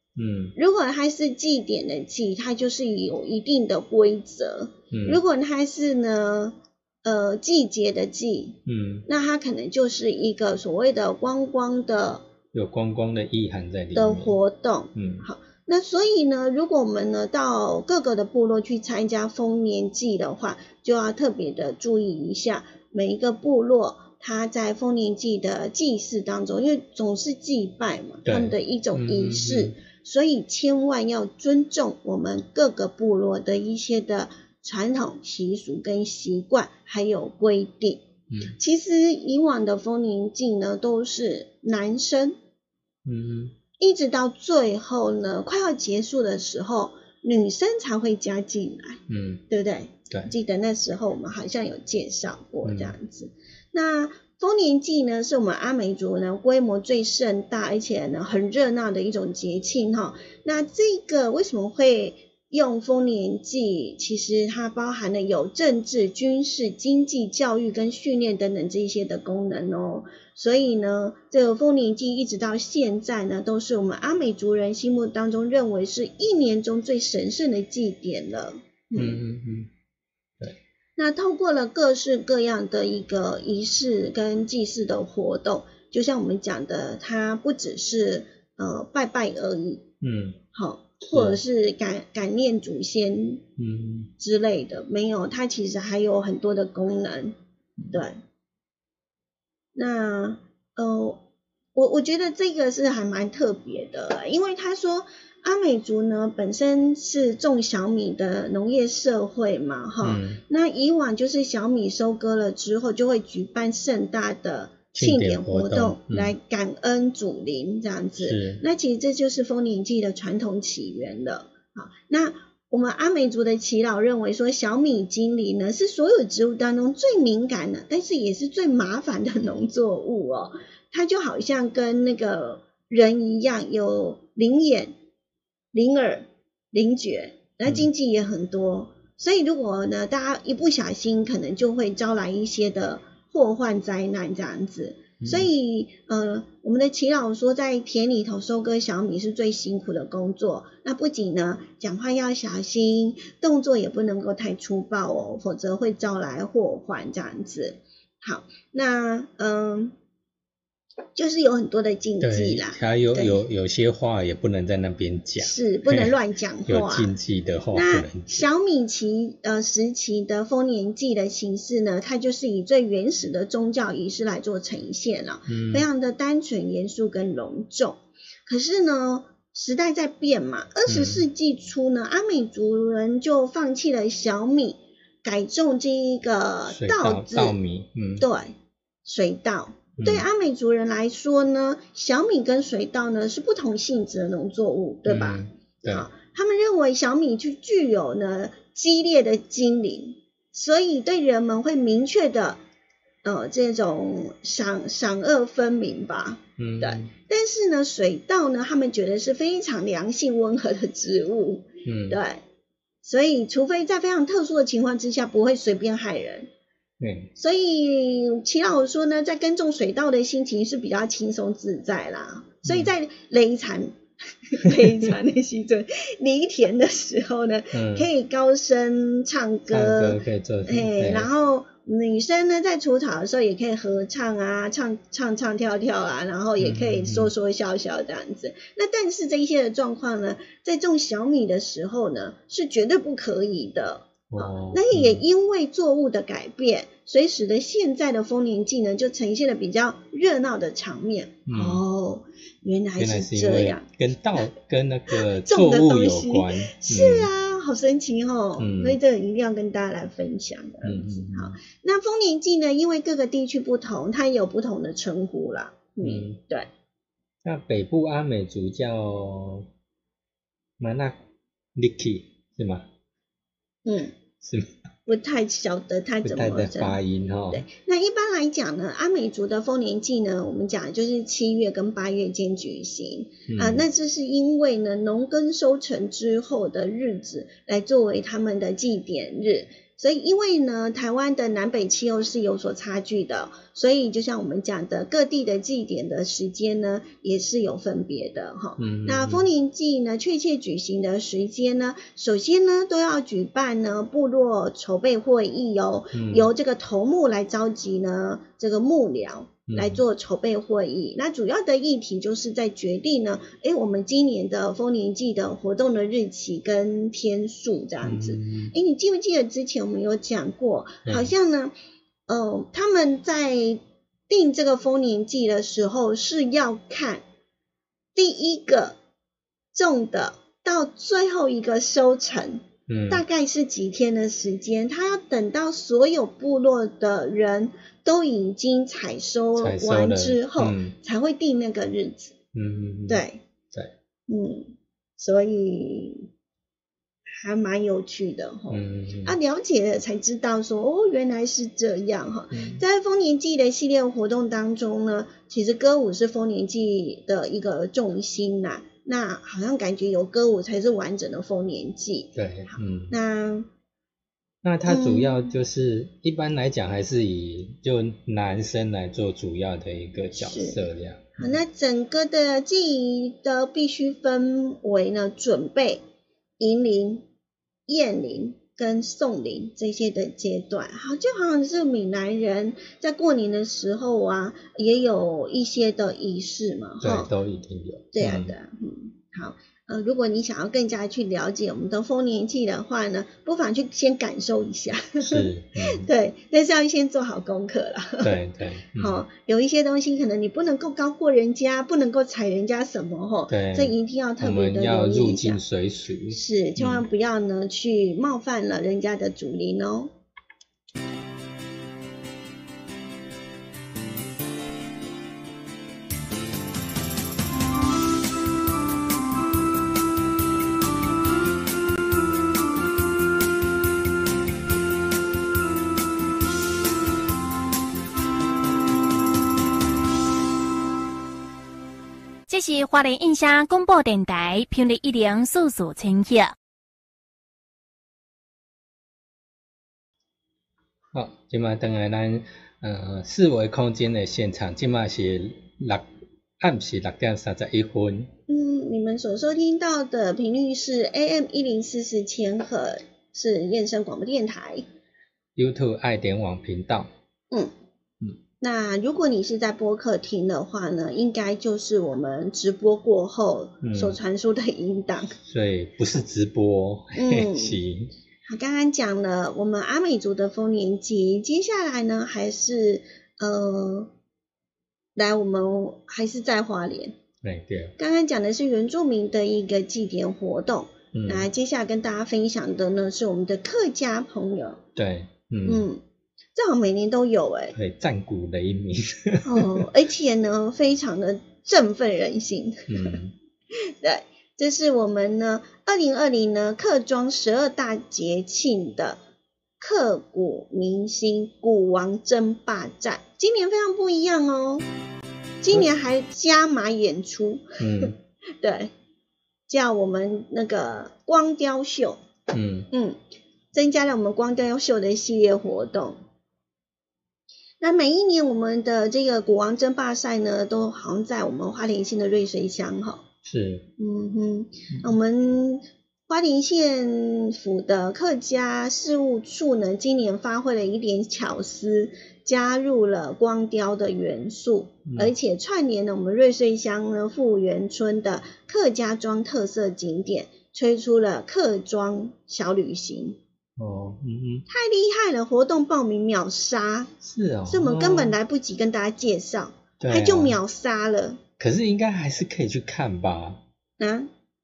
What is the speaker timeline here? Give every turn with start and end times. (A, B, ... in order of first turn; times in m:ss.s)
0:00.2-0:00.6 A
0:00.6-0:12.2 B
0:04.9-0:05.2 A
0:08.7-0:09.1 A
0:12.5-0:14.4 A
0:13.9-0:42.4 B
0:14.9-0:15.2 A
0:28.2-0:29.8 A
0:43.0-0:43.6 A
0:43.8-1:19.2 B
0:49.1-0:49.4 A
0:52.6-0:53.0 A
1:18.9-1:19.7 A
1:21.0-1:29.8 B
1:30.0-1:30.4 A
1:30.5-1:33.4 B
1:31.1-1:31.4 A
1:33.6-1:34.1 A
1:34.2-1:37.3 B
1:37.9-1:38.2 B
1:39.7-1:41.2 B
1:41.7-2:14.9 B
1:50.0-1:50.4 A
1:54.9-1:56.3 A
1:58.2-1:58.6 A
2:15.7-2:39.9 B
2:25.2-2:25.5 A
2:41.1-2:43.4 B
2:42.2-2:46.1 A
2:45.4-2:47.1 B
2:46.7-2:48.4 A
2:47.7-3:07.6 B
2:55.5-2:55.9 A
3:00.9-3:01.2 A
3:06.7-3:08.3 A
3:08.2-3:08.5 B
3:09.0-3:22.6 B
3:10.0-3:10.2 A
3:15.0-3:16.1 A
3:23.2-3:32.4 B
3:26.6-3:27.1 A
3:31.8-3:32.2 A
3:33.0-3:36.5 B
3:37.0-3:37.3 A
3:37.4-4:13.8 B
3:42.6-3:42.9 A
3:47.7-3:48.1 A
3:49.7-3:51.3 A
3:56.6-3:57.3 A
4:04.3-4:05.2 A
4:11.5-4:11.8 A
4:13.0-4:17.3 A
4:15.1-4:26.7 B
4:18.6-4:19.0 A
4:20.8-4:21.6 A
4:26.0-4:26.4 A
4:27.4-4:29.7 A
4:30.8-4:31.2 A
4:31.7-4:32.9 A
4:33.8-4:34.1 B
4:34.4-4:34.7 A
4:35.1-4:37.0 B
4:36.2-4:37.6 A
4:37.5-5:21.7 B
4:43.5-4:43.8 A
4:58.8-4:59.5 A
5:06.1-5:06.5 A
5:09.7-5:10.0 A
5:18.0-5:18.7 A
5:21.0-5:21.3 A
5:22.3-5:27.2 B
5:28.1-5:29.0 B
5:29.7-5:42.4 B
5:32.9-5:33.2 A
5:39.6-5:41.0 A
5:42.5-5:43.9 A
5:43.1-5:43.4 B
5:44.3-5:46.3 B
5:47.4-6:03.7 B
5:48.7-5:49.4 A
5:52.5-5:52.8 A
6:02.3-6:03.2 A
6:04.6-6:11.6 A
6:04.8-6:05.5 B
6:10.3-6:10.8 B
6:11.4-6:16.0 B
6:16.6-6:17.2 B
6:17.9-6:27.3 B
6:27.0-6:28.6 A
6:28.1-6:38.3 B
6:35.2-6:36.1 A
6:38.2-6:39.2 A
6:39.0-6:45.6 B
6:43.5-6:47.0 A
6:46.3-6:50.1 B
7:12.5-7:16.5 C
7:21.1-7:26.0 A
7:26.6-7:28.3 A
7:28.5-7:34.8 B
7:35.6-7:37.1 A
7:38.6-7:45.4 B
7:43.8-7:44.2 A
7:45.5-7:48.1 A
7:47.1-7:47.8 B
7:48.5-7:54.1 B
7:55.1-7:57.2 B
7:57.4-7:58.0 A
7:58.0-8:04.8 B
8:01.1-8:01.5 A
8:05.0-8:05.8 A
8:05.6-8:06.0 B
8:06.5-8:07.7 B
8:07.7-8:09.8 A
8:09.4-8:13.2 B
8:12.9-8:13.3 A
8:13.8-8:19.2 B
8:19.8-8:24.8 B
8:25.6-8:28.9 B
8:27.8-8:28.2 A
8:29.7-8:32.2 B
8:32.5-8:32.9 A
8:32.9-8:33.2 B
8:33.7-8:36.2 B
8:37.8-8:43.2 B
8:43.4-8:43.9 A
8:44.0-9:03.4 B
8:55.1-8:55.3 A
9:03.8-9:04.7 A
9:04.7-9:07.1 B
9:07.2-9:08.4 A
9:07.7-9:11.4 B
9:10.0-9:10.6 A
9:11.6-9:13.6 A
9:14.0-9:14.3 B